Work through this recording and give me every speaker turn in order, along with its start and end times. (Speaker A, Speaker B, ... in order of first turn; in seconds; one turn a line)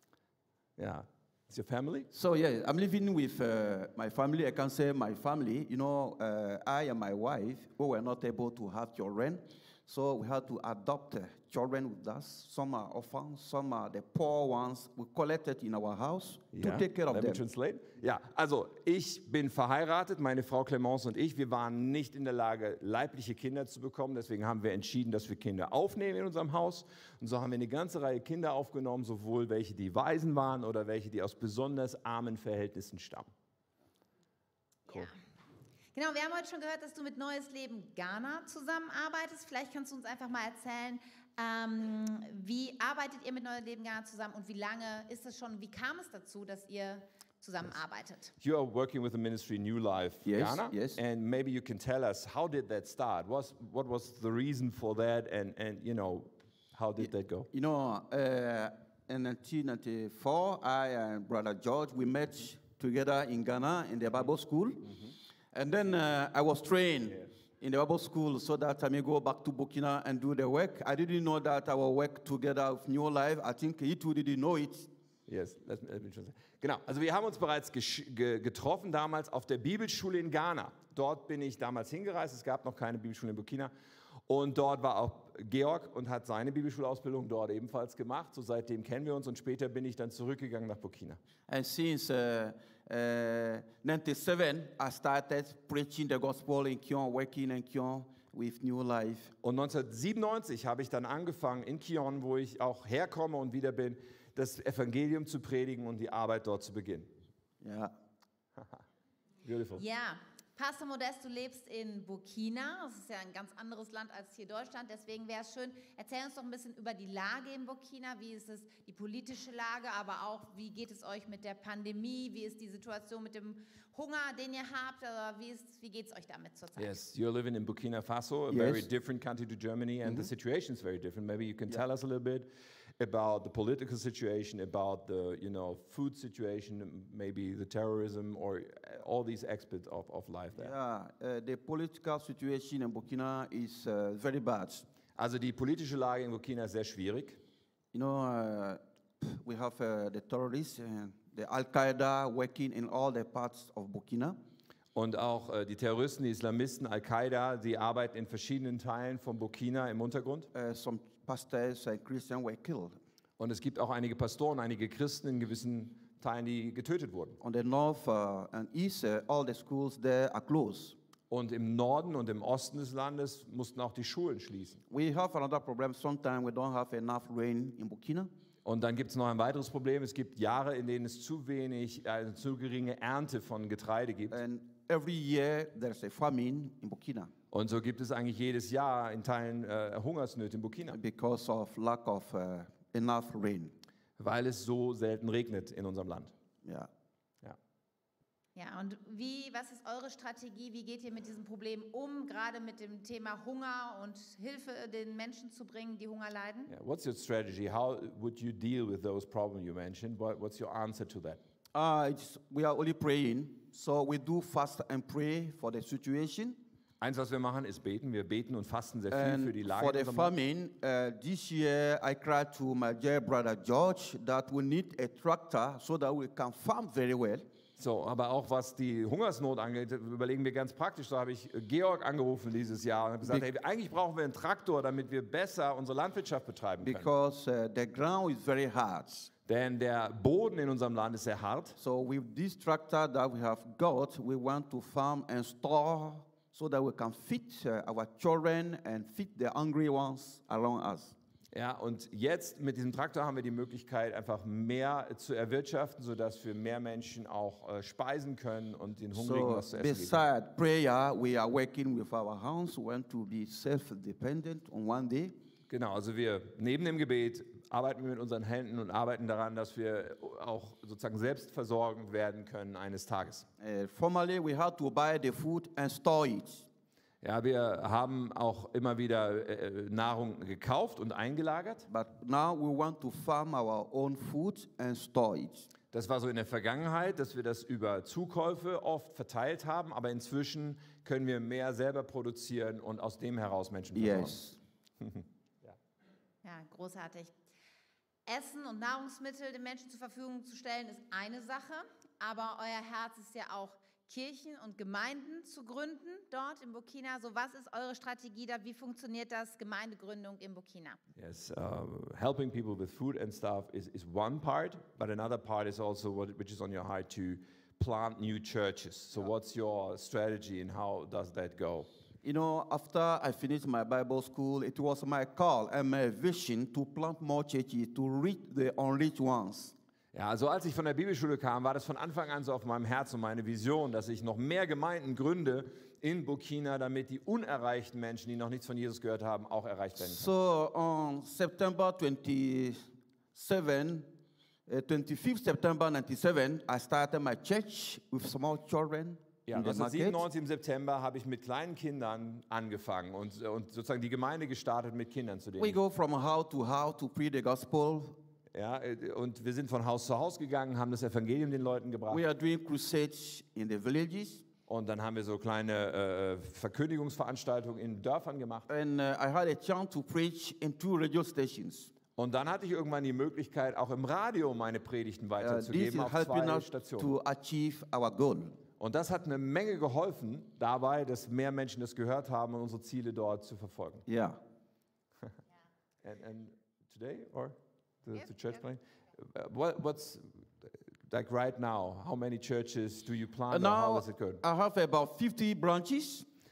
Speaker A: 0.8-2.1
Speaker B: 2.1-17.4
Speaker A: 16.5-33.3
Speaker C: 35.9-48.3
Speaker A: 48.4-57.5
Speaker B: 50.2-51.0
Speaker B: 57.0-64.9
Speaker B: 65.5-74.9
Speaker A: 75.3-83.7
Speaker A: 84.3-91.2
Speaker B: 91.5-99.3
Speaker A: 99.4-107.1
Speaker B: 107.6-107.9
Speaker A: 109.4-109.8
Speaker C: 109.8-127.0
Speaker A: 126.8-140.7
Speaker B: 128.5-128.9
Speaker B: 140.6-144.8
Speaker A: 145.2-147.4
Speaker B: 147.9-154.4
Speaker A: 154.9-160.5
Speaker B: 160.5-162.9
Speaker A: 163.4-167.4
Speaker B: 167.4-171.0
Speaker A: 171.3-174.8
Speaker B: 174.9-178.3
Speaker A: 178.6-184.4
Speaker B: 184.3-187.3
Speaker A: 187.5-191.0
Speaker B: 190.9-193.7
Speaker A: 194.2-196.3
Speaker B: 196.6-196.9
Speaker C: 198.6-206.7
Speaker A: 206.7-211.4
Speaker B: 211.7-216.6
Speaker A: 217.0-220.3
Speaker B: 219.1-227.4
Speaker A: 227.8-237.1
Speaker B: 236.8-239.3
Speaker A: 239.5-241.8
Speaker B: 241.8-251.1
Speaker A: 251.5-260.2
Speaker B: 259.1-265.3
Speaker A: 265.7-273.5
Speaker B: 273.6-276.6
Speaker A: 277.2-281.9
Speaker B: 281.9-285.7
Speaker A: 285.9-294.4
Speaker B: 293.9-294.6
Speaker A: 295.0-295.7
Speaker C: 296.4-297.3
Speaker C: 298.2-311.0
Speaker A: 311.1-321.9
Speaker B: 322.2-329.7
Speaker A: 330.1-340.3
Speaker B: 340.0-344.1
Speaker B: 344.7-350.2
Speaker A: 349.4-355.8
Speaker B: 355.6-358.2
Speaker A: 358.5-362.2
Speaker B: 362.1-364.4
Speaker A: 364.7-368.7
Speaker B: 368.7-371.9
Speaker A: 372.2-377.1
Speaker B: 375.4-378.6
Speaker A: 378.8-384.1
Speaker B: 384.1-384.4
Speaker A: 386.0-394.4
Speaker B: 393.5-396.2